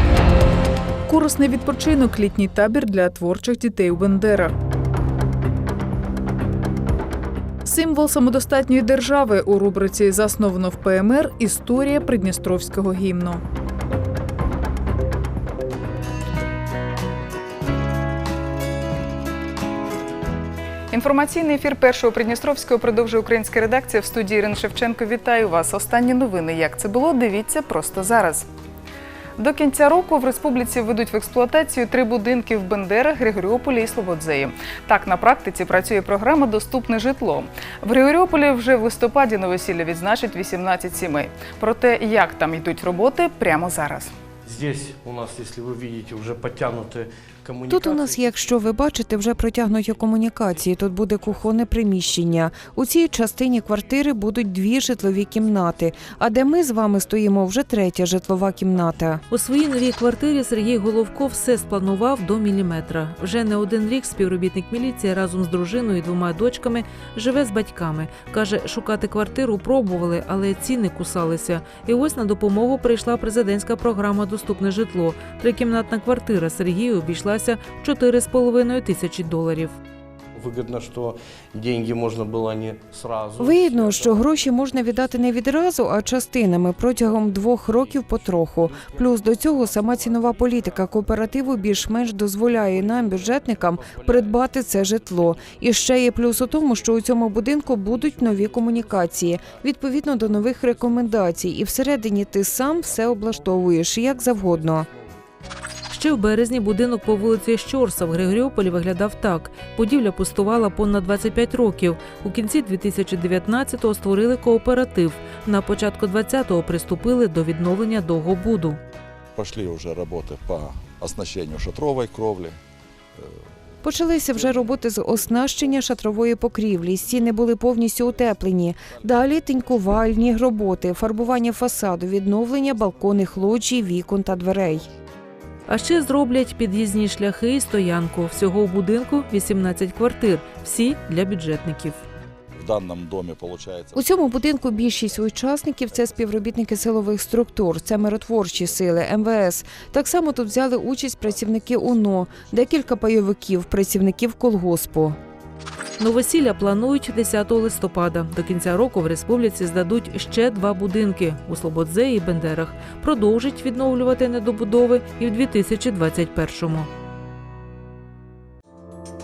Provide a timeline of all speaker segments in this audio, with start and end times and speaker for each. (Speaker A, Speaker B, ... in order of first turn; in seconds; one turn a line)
Speaker A: 1.1-4.5
Speaker A: 7.7-13.4
Speaker A: 20.9-28.5
Speaker A: 29.4-44.1
Speaker B: 44.5-48.4
Speaker C: 47.7-59.2
Speaker D: 59.3-79.8
Speaker B: 80.3-84.3
Speaker C: 83.4-104.9
Speaker D: 105.9-118.8
Speaker E: 119.3-122.6
Speaker C: 123.8-134.9
Speaker D: 135.7-142.0
Speaker E: 142.6-144.0
Speaker C: 143.9-155.2
Speaker D: 156.0-166.9